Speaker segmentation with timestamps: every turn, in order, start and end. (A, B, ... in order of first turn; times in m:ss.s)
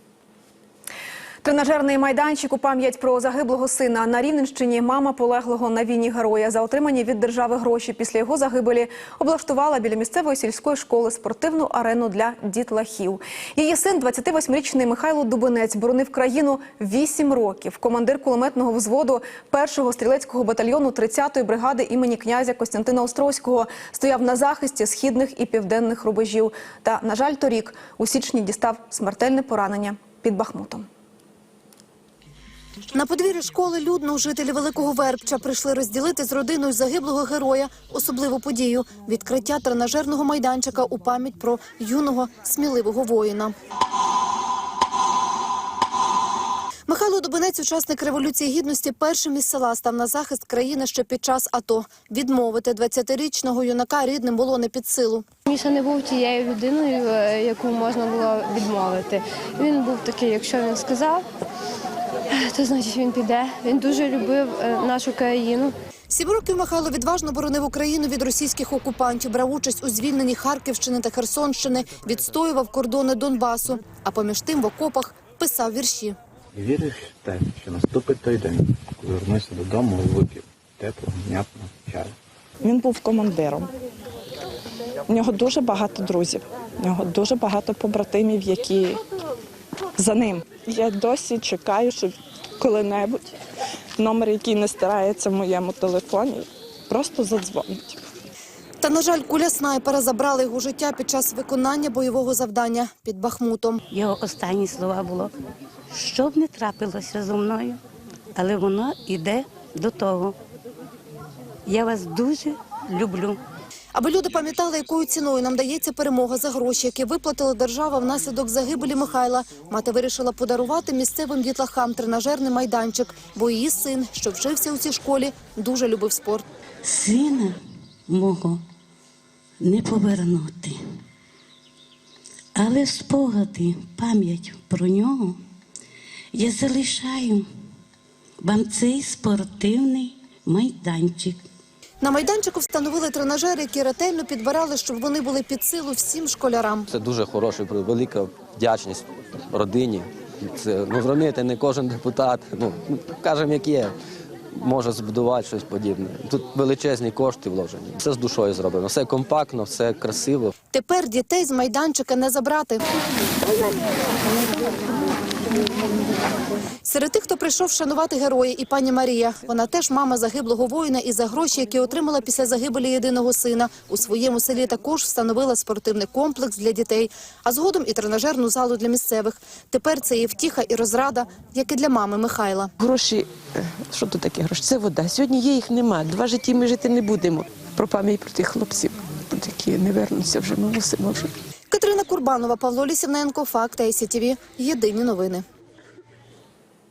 0:01.4-0:30.9 A
0:32.9-0:43.5 B
0:46.9-0:55.2 B
0:55.5-1:01.2 C
1:02.4-1:05.7 C
1:06.1-1:16.2 B
1:16.6-1:22.1 D
1:22.6-1:23.7 E
1:25.1-1:29.0 E
1:30.0-1:33.3 E
1:34.0-1:38.0 E
1:38.8-1:43.8 B
1:43.9-1:45.3 F
1:45.9-1:47.8 F
1:48.4-1:50.4 F
1:51.7-1:53.4 F
1:54.0-2:06.4 B
2:06.8-2:08.6 F
2:09.6-2:10.8 F
2:12.6-2:15.4 F
2:16.3-2:17.5 F
2:18.4-2:21.4 F
2:22.0-2:26.9 B
2:26.9-2:34.0 G
2:34.6-2:40.5 G
2:40.7-2:42.8 B
2:46.8-3:02.7 B
3:02.8-3:03.2 H
3:04.8-3:05.8 H
3:06.3-3:06.8 H
3:11.7-3:15.4 B